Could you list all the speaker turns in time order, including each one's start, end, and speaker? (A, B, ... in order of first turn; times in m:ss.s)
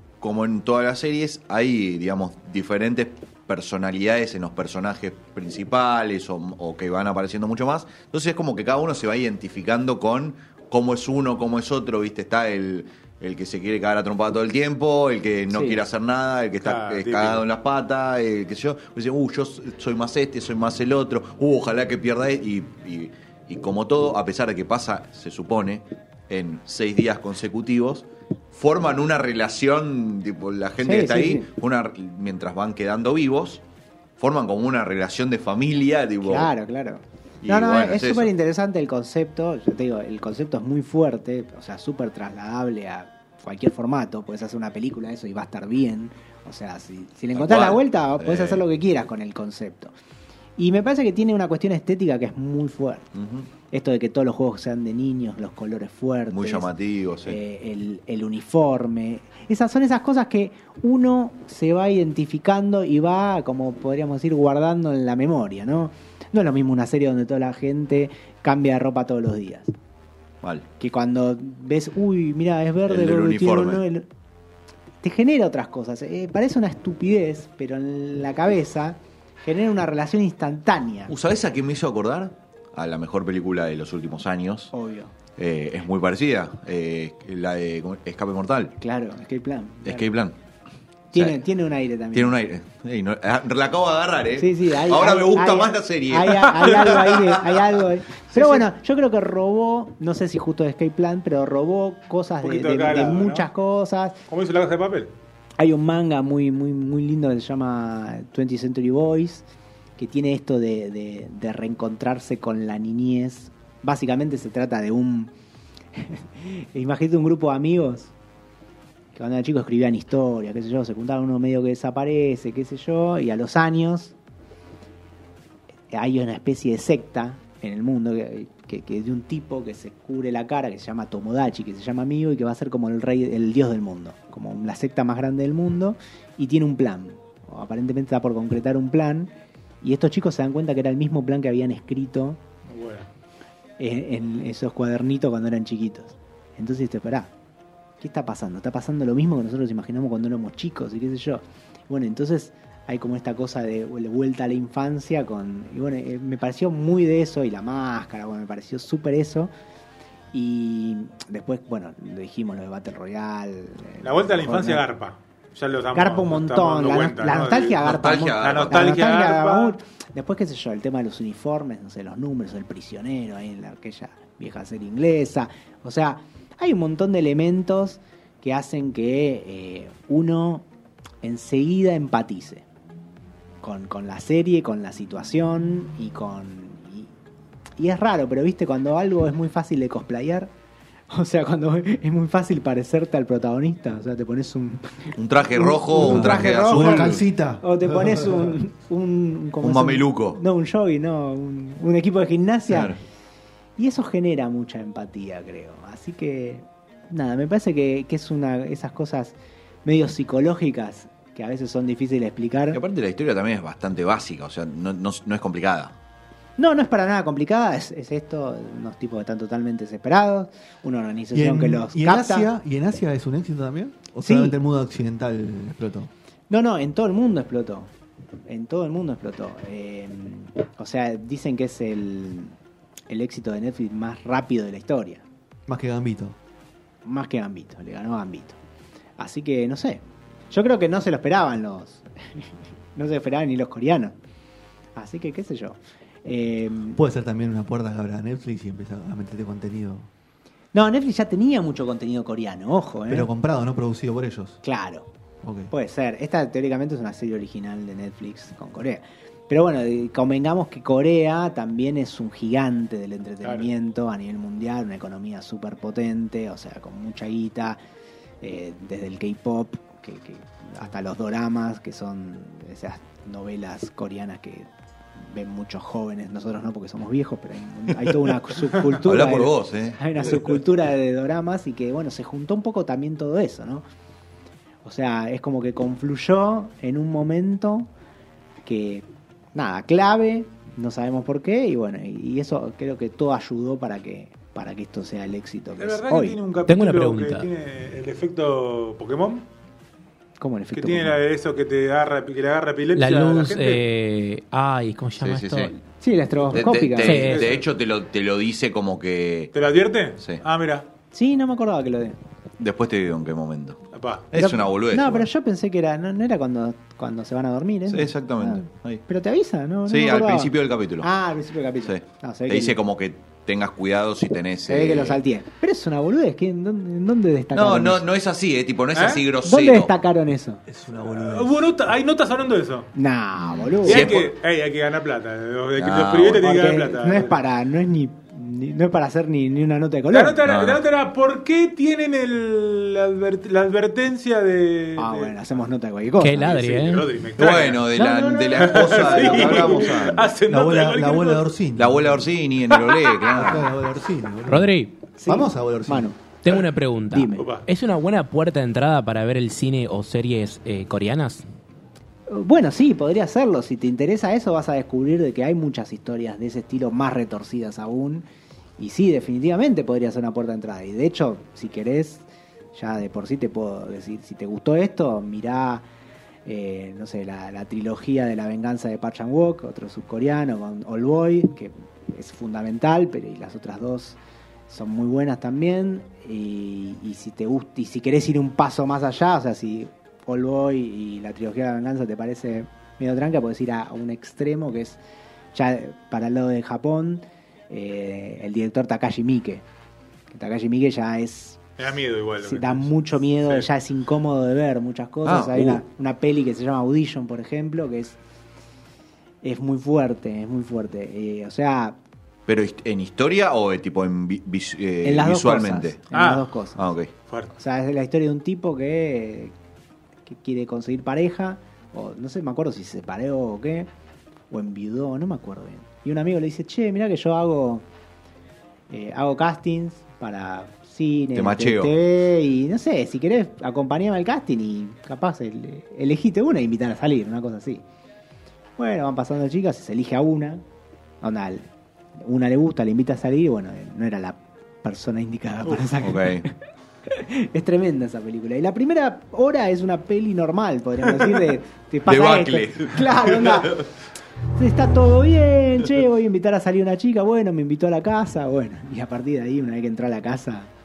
0:00.2-0:33.6 A
0:15.5-0:15.8 B
0:16.6-0:17.4 C
0:30.8-0:31.5 B
0:34.2-0:36.5 A
0:36.2-0:49.9 B
0:37.4-0:38.3 A
0:47.3-0:48.6 A
0:50.6-0:53.1 B
0:53.2-0:53.5 A
0:53.7-0:56.7 B
0:56.3-0:57.4 A
0:57.2-1:09.7 B
1:10.8-1:14.1 B
1:12.9-1:13.8 A
1:15.0-1:21.1 B
1:21.1-1:24.7 A
1:24.7-1:25.1 B
1:25.4-1:28.7 A
1:28.8-1:30.1 B
1:29.8-1:30.4 A
1:31.1-1:32.4 B
1:32.1-1:37.7 A
1:34.4-1:44.2 B
1:42.4-1:43.5 C
1:44.3-1:45.1 C
1:45.6-1:49.4 B
1:50.0-1:55.3 B
1:56.0-1:58.1 B
1:59.2-2:04.2 B
2:05.9-2:19.3 B
2:19.8-2:22.4 B
2:22.7-2:23.1 C
2:23.8-2:27.3 B
2:28.0-2:39.5 B
2:40.3-2:44.8 B
2:44.0-2:47.9 C
2:45.9-3:00.7 B
2:47.8-2:48.9 A
2:48.4-2:49.8 C
3:01.2-3:02.6 B
3:03.6-3:07.1 B
3:07.8-3:10.5 B
3:11.1-3:23.0 B
3:15.2-3:17.2 A
3:16.0-3:18.5 D
3:19.6-3:20.4 A
3:22.7-3:23.0 A
3:23.8-3:32.8 B
3:32.7-3:35.9 A
3:36.6-3:42.5 B
3:41.3-3:46.1 D
3:44.2-3:44.6 B
3:46.5-3:47.9 B
3:48.5-3:52.6 B
3:53.1-3:55.2 B
3:55.7-3:56.4 D
3:57.0-3:58.6 B
3:59.2-4:04.2 B
4:05.0-4:07.0 B
4:07.0-4:10.1 D
4:10.7-4:13.3 B
4:13.1-4:14.6 D
4:14.6-4:15.1 B
4:15.4-4:15.7 D
4:15.7-4:27.8 B
4:28.4-4:43.8 B
4:38.7-4:40.6 A
4:44.8-4:47.9 B
4:48.6-4:56.4 B
4:55.8-4:59.5 C
4:56.7-4:57.5 E
5:00.4-5:01.2 B
5:00.8-5:03.8 C
5:03.0-5:05.7 E
5:05.2-5:05.7 A
5:06.0-5:07.4 B
5:06.5-5:09.5 A
5:07.0-5:07.5 E
5:07.3-5:07.6 C
5:09.5-5:10.9 C
5:11.1-5:12.2 B
5:12.6-5:15.3 A
5:13.9-5:14.3 C
5:14.3-5:22.8 B
5:17.9-5:19.0 A
5:19.9-5:21.1 A
5:21.8-5:25.2 A
5:24.7-5:28.0 B
5:27.5-5:29.9 A
5:28.9-5:29.2 C
5:29.4-5:30.6 B
5:30.7-5:31.7 D
5:31.1-5:32.9 C
5:33.0-5:34.2 B
5:33.5-5:34.3 A
5:33.8-5:37.3 C
5:35.8-5:36.5 A
5:36.4-5:40.4 B
5:40.1-5:45.4 C
5:40.4-5:40.8 A
5:45.0-5:46.8 B
5:46.2-5:47.1 E
5:46.4-5:47.9 C
5:47.4-5:50.4 A
5:47.9-5:50.0 B
5:48.5-5:51.5 C
5:50.5-5:52.3 D
5:51.8-5:53.7 A
5:52.7-5:53.3 C
5:53.3-5:54.7 D
5:54.5-5:55.0 E
5:55.2-5:56.2 B
5:55.3-5:56.1 D
5:56.4-6:01.5 E
5:57.1-5:57.5 B
5:57.4-5:57.7 C
6:02.3-6:08.2 B
6:08.8-6:15.8 B
6:16.5-6:24.2 B
6:24.7-6:35.0 B
6:35.5-6:39.6 B
6:40.3-6:41.7 B
6:41.8-6:42.9 C
6:42.4-6:48.2 B
6:45.2-6:45.8 A
6:49.4-6:52.0 B
6:52.5-6:56.0 A
6:55.0-6:56.8 B
6:56.1-6:56.4 C
6:56.8-6:57.1 A
6:57.6-6:59.5 B
7:00.3-7:03.9 B
7:04.5-7:07.8 B
7:08.9-7:17.8 B
7:11.4-7:11.9 A
7:18.8-7:20.6 B
7:21.2-7:21.7 B
7:22.2-7:26.6 B
7:26.0-7:26.4 A
7:27.1-7:33.8 B
7:32.1-7:33.9 A
7:34.6-7:40.7 B